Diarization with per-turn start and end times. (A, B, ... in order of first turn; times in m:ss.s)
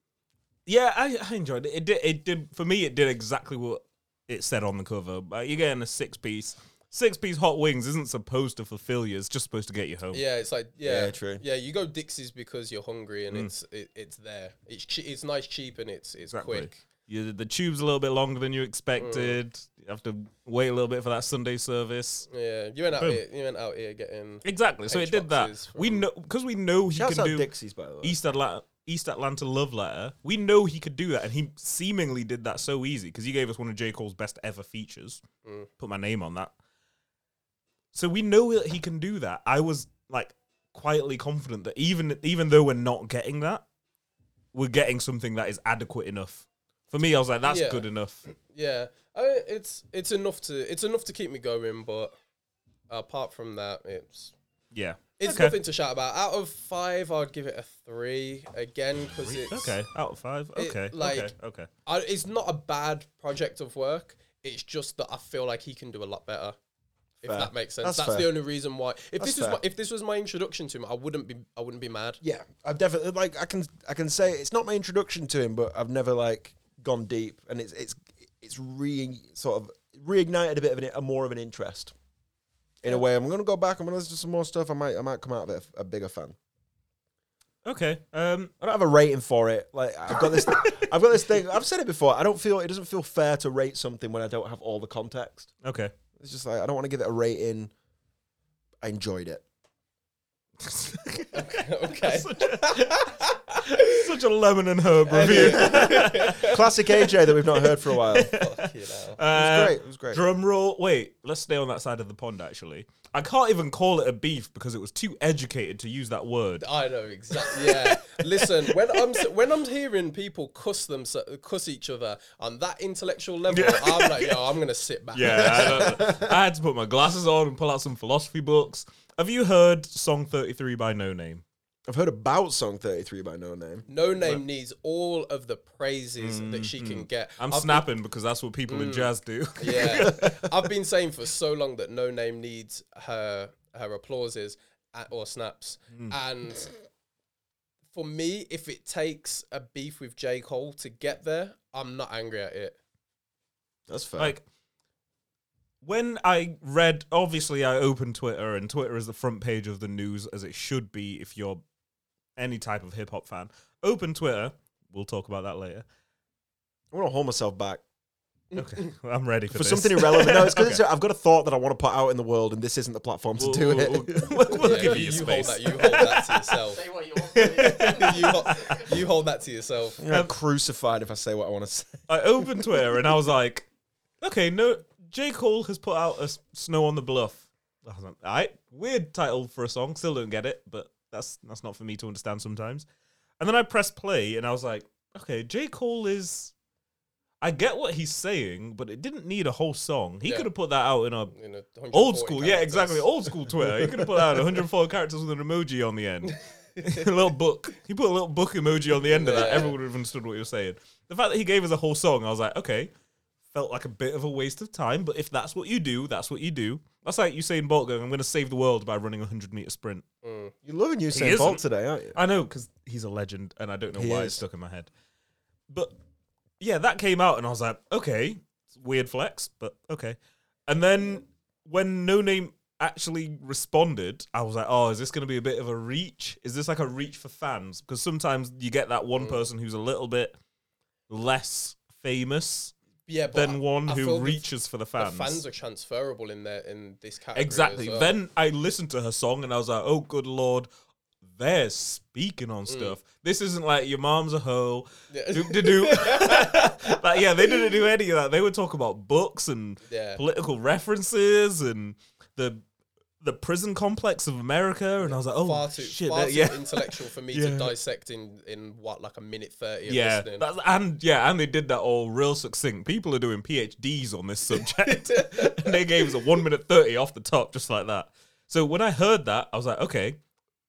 0:00.6-0:10.2 A
0:10.1-0:16.8 B
0:10.8-0:11.4 C
0:16.3-0:22.3 A
0:19.0-0:19.4 B
0:22.3-0:26.1 B
0:24.4-0:27.5 A
0:26.9-0:28.2 C
0:28.0-0:35.2 A
0:35.8-0:36.5 A
0:37.9-0:43.6 A
0:44.5-0:48.2 A
0:47.4-0:52.1 B
0:52.9-0:54.3 B
0:54.7-0:55.6 A
0:55.2-0:59.8 B
0:59.2-1:01.7 A
1:00.6-1:01.3 B
1:01.8-1:06.6 B
1:07.2-1:12.2 B
1:07.2-1:08.3 C
1:09.2-1:09.6 C
1:12.2-1:21.9 C
1:22.8-1:26.4 C
1:27.6-1:28.5 A
1:28.6-1:35.5 C
1:30.2-1:30.8 A
1:35.6-1:35.9 A
1:36.2-1:37.7 C
1:38.8-1:39.4 C
1:40.6-1:56.6 A
1:41.3-1:44.0 B
1:45.1-1:46.6 B
1:45.1-1:48.3 C
1:48.3-1:49.2 B
1:49.3-1:50.2 C
1:56.6-2:06.0 B
1:57.4-1:59.2 A
2:03.5-2:04.4 A
2:05.1-2:11.4 A
2:05.6-2:06.3 C
2:11.9-2:13.9 C
2:13.9-2:17.8 B
2:16.2-2:20.3 A
2:18.7-2:26.7 B
2:20.0-2:20.3 C
2:27.9-2:32.8 B
2:33.9-2:34.4 C
2:34.2-2:34.4 A
2:35.8-2:41.6 A
2:42.4-2:45.8 A
2:46.9-2:47.8 C
2:48.6-2:50.8 A
2:49.5-2:54.9 C
2:53.4-2:56.4 A
2:54.6-2:56.8 B
2:56.6-2:59.0 D
2:57.3-2:58.8 A
2:57.4-3:00.0 B
3:00.0-3:02.7 C
3:02.1-3:03.7 A
3:04.2-3:12.8 A
3:13.4-3:16.5 A
3:17.4-3:21.3 A
3:21.3-3:24.1 B
3:21.9-3:32.9 A
3:29.1-3:29.8 B
3:33.5-3:40.0 A
3:40.2-3:40.5 B
3:40.6-3:42.2 C
3:41.1-3:41.6 A
3:42.1-3:44.9 A
3:43.9-3:44.4 C
3:45.7-3:45.9 A
3:46.6-4:00.4 A
3:59.2-3:59.4 B
4:01.1-4:02.7 A
4:03.0-4:04.4 B
4:03.3-4:05.4 A
4:05.0-4:08.1 B
4:07.3-4:10.7 A
4:11.2-4:22.6 A
4:12.7-4:12.9 B
4:15.1-4:17.7 B
4:19.8-4:20.2 B
4:23.2-4:27.7 A
4:25.0-4:30.4 B
4:29.9-4:40.2 A
4:34.5-4:36.3 B